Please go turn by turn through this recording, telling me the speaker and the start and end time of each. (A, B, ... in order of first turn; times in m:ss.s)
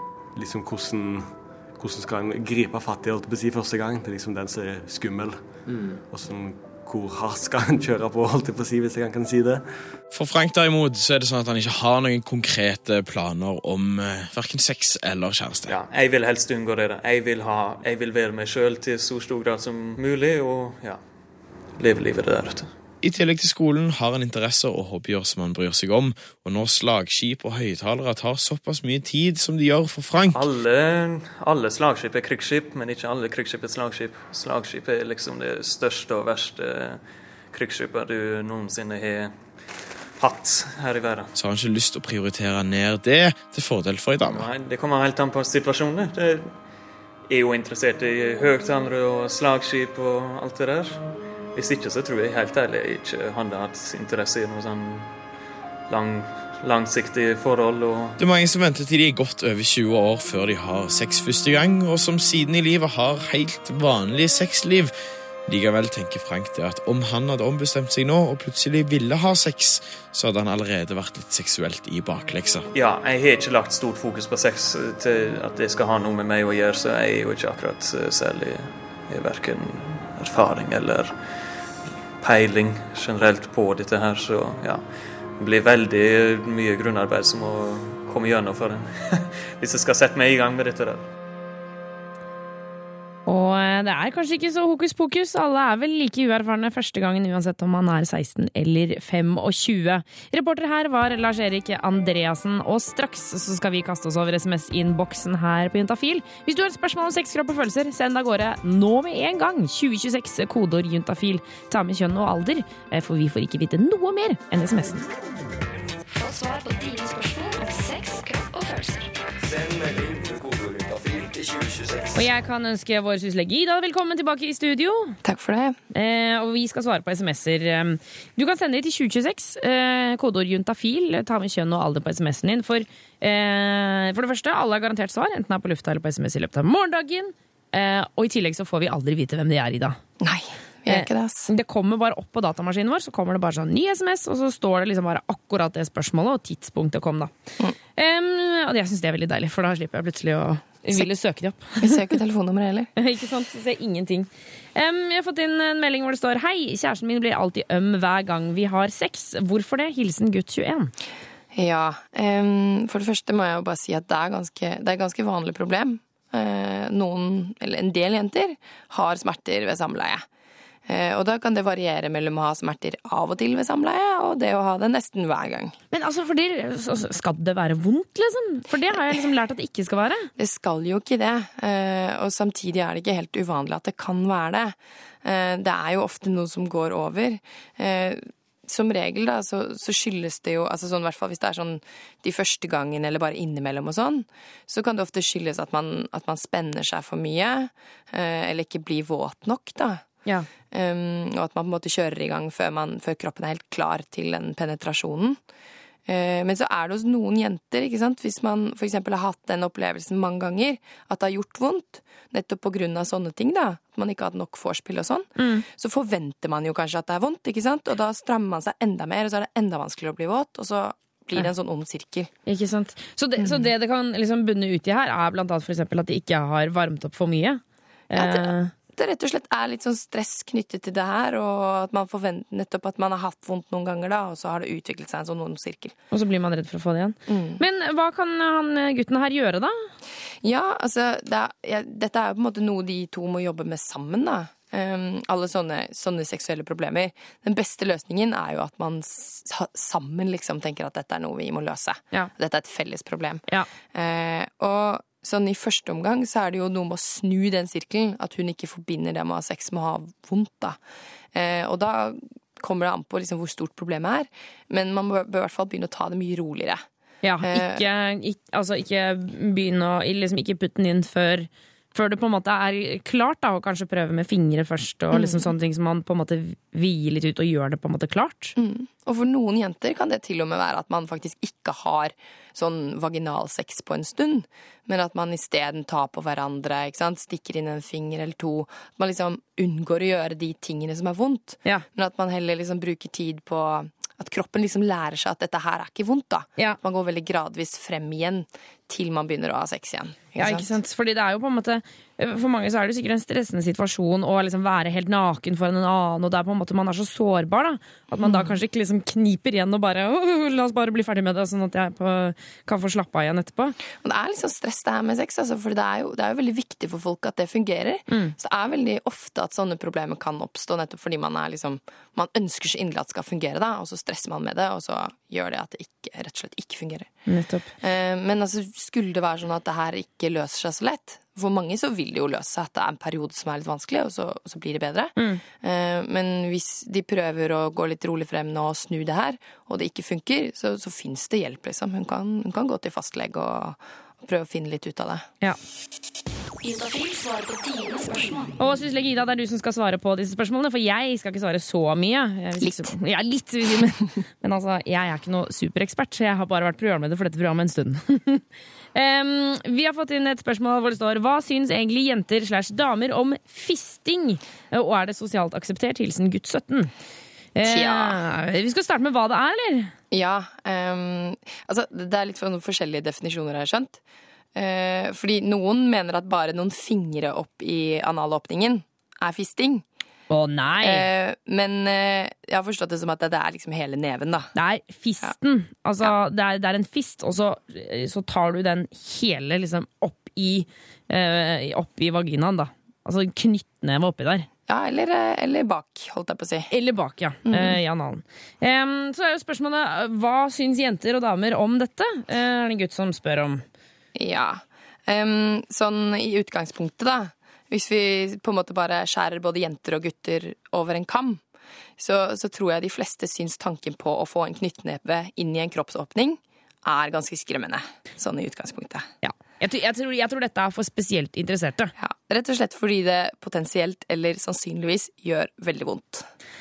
0:00.3-0:09.6 A
0:10.1-0:15.8 B
0:15.7-0:21.0 C
0:21.8-0:22.7 C
0:23.0-0:30.5 B
0:30.3-0:39.4 C
0:40.2-0:41.3 C
0:41.4-0:44.5 B
0:44.3-0:46.5 C
0:47.3-0:51.0 C
0:51.5-0:55.2 C
0:55.9-0:58.2 C
0:58.2-1:04.9 B
1:05.5-1:12.7 B
1:12.7-1:21.2 C
1:22.2-1:31.1 C
1:33.3-1:55.1 D
1:56.1-1:59.1 E
2:02.2-2:05.2 D
2:05.2-2:05.8 F
2:05.9-2:20.0 D
2:20.2-2:21.5 F
2:20.9-2:27.3 D
2:28.0-2:32.0 D
2:31.8-2:32.9 F
2:33.0-2:40.9 D
2:41.5-2:50.2 F
2:50.9-2:55.8 F
2:55.9-3:00.3 D
3:00.4-3:20.0 F
3:20.7-3:25.4 F
3:26.1-3:42.3 F
3:35.4-3:35.6 D
3:42.5-3:48.7 D
3:43.4-3:43.7 F
3:48.1-3:56.0 F
3:56.1-3:59.9 D
3:57.3-3:57.6 F
4:00.4-4:20.8 F
4:21.3-4:26.8 F
4:27.2-4:38.5 D
4:27.4-4:27.8 F
4:35.1-4:35.5 F
4:38.6-5:00.7 F
5:00.4-5:13.8 D
5:08.2-5:08.5 F
5:14.0-5:27.2 F
5:27.3-5:27.7 D
5:27.8-5:45.2 F
5:46.6-5:48.5 E
5:48.6-5:58.4 D
5:52.6-5:52.9 F
5:58.9-6:06.9 D
6:07.6-6:09.9 D
6:07.6-6:08.2 F
6:10.1-6:14.0 F
6:14.6-6:19.8 F
6:20.3-6:21.1 D
6:20.8-6:24.5 F
6:24.6-6:34.5 D
6:34.7-6:36.7 F
6:36.7-6:43.6 D
6:37.5-6:37.8 F
6:44.2-6:51.4 F
6:52.0-6:59.1 F
6:59.2-7:01.9 D
7:02.0-7:06.3 F